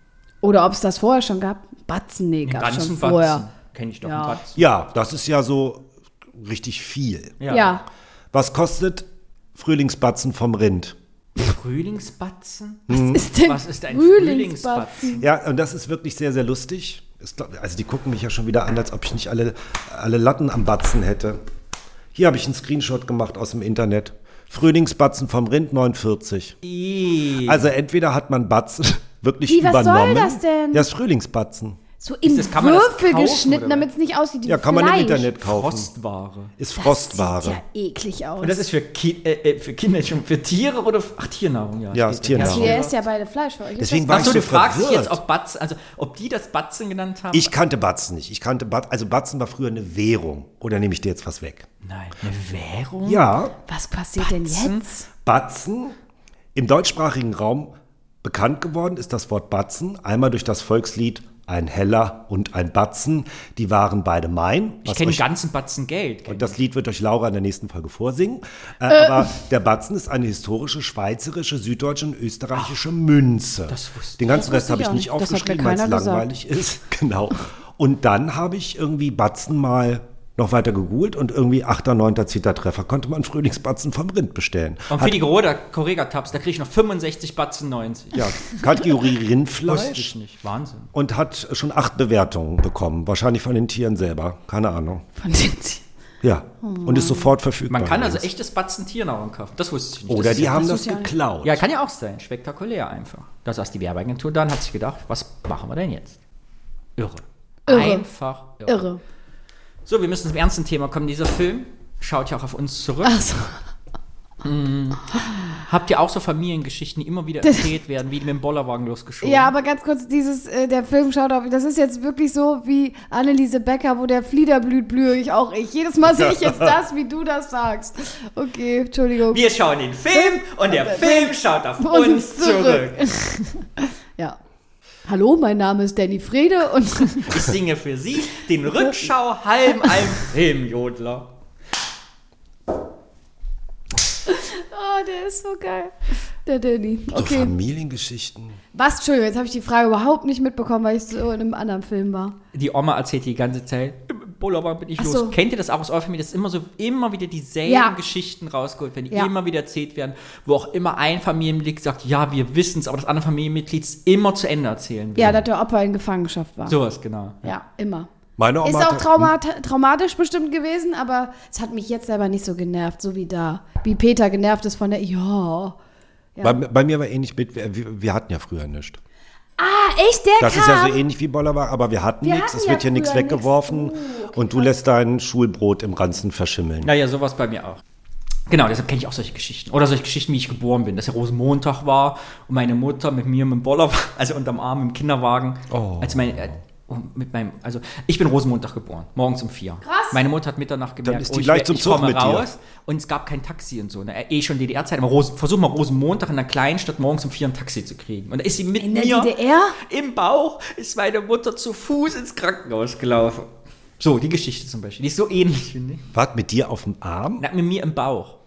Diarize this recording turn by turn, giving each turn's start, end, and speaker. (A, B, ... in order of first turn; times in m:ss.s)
0:00.4-0:03.4 A
0:02.4-0:04.6 B
0:04.0-0:04.4 A
0:04.5-0:07.4 C
0:07.4-0:07.7 B
0:07.5-0:07.8 A
0:08.3-0:11.0 C
0:11.4-0:15.2 B
0:12.9-0:13.3 C
0:12.9-0:15.2 A
0:15.2-0:21.4 C
0:22.1-0:26.6 C
0:26.6-0:27.6 B
0:27.4-0:31.8 C
0:29.5-0:30.9 A
0:32.0-0:35.3 A
0:32.2-0:33.9 B
0:34.4-0:35.9 C
0:35.4-0:36.5 B
0:36.6-0:37.6 C
0:36.8-0:38.6 A
0:38.4-0:43.0 B
0:41.9-0:42.8 C
0:42.4-0:44.4 A
0:43.8-0:45.2 C
0:44.1-0:47.5 B
0:47.3-0:51.6 C
0:51.8-0:53.2 B
0:53.0-0:53.5 C
0:53.7-0:55.0 A
0:54.2-0:54.8 B
0:55.2-0:55.9 C
0:56.5-1:05.2 C
1:04.8-1:06.6 B
1:06.3-1:25.2 C
1:08.9-1:09.3 A
1:13.7-1:14.4 B
1:14.3-1:16.3 A
1:24.9-1:28.6 B
1:28.1-1:30.1 C
1:29.6-1:30.9 B
1:30.9-1:35.0 C
1:35.2-1:35.8 A
1:36.2-1:38.3 C
1:36.6-1:37.3 A
1:37.7-1:40.8 B
1:40.1-1:41.6 C
1:40.5-1:41.1 A
1:41.4-1:46.2 B
1:47.0-1:48.9 B
1:47.7-1:48.0 A
1:48.6-1:49.0 A
1:49.8-1:53.2 B
1:53.0-1:53.6 A
1:54.4-1:59.5 B
1:59.2-2:09.4 A
2:06.1-2:06.7 C
2:09.3-2:13.1 B
2:10.1-2:14.4 A
2:15.0-2:17.4 A
2:17.2-2:21.3 B
2:24.3-2:27.5 A
2:27.1-2:28.6 C
2:28.7-2:32.4 A
2:32.5-2:45.4 B
2:35.0-2:35.3 A
2:37.6-2:38.0 A
2:45.2-2:46.8 A
2:46.7-2:47.5 B
2:47.4-2:48.1 A
2:48.4-2:49.3 C
2:48.6-2:55.8 A
2:56.4-2:59.0 C
2:59.6-3:01.0 A
3:00.4-3:06.9 C
3:02.2-3:04.7 A
3:06.8-3:07.8 B
3:08.5-3:36.0 B
3:15.7-3:16.6 C
3:19.8-3:20.2 A
3:21.0-3:22.5 C
3:28.8-3:29.8 A
3:36.1-3:37.4 C
3:37.4-3:38.4 B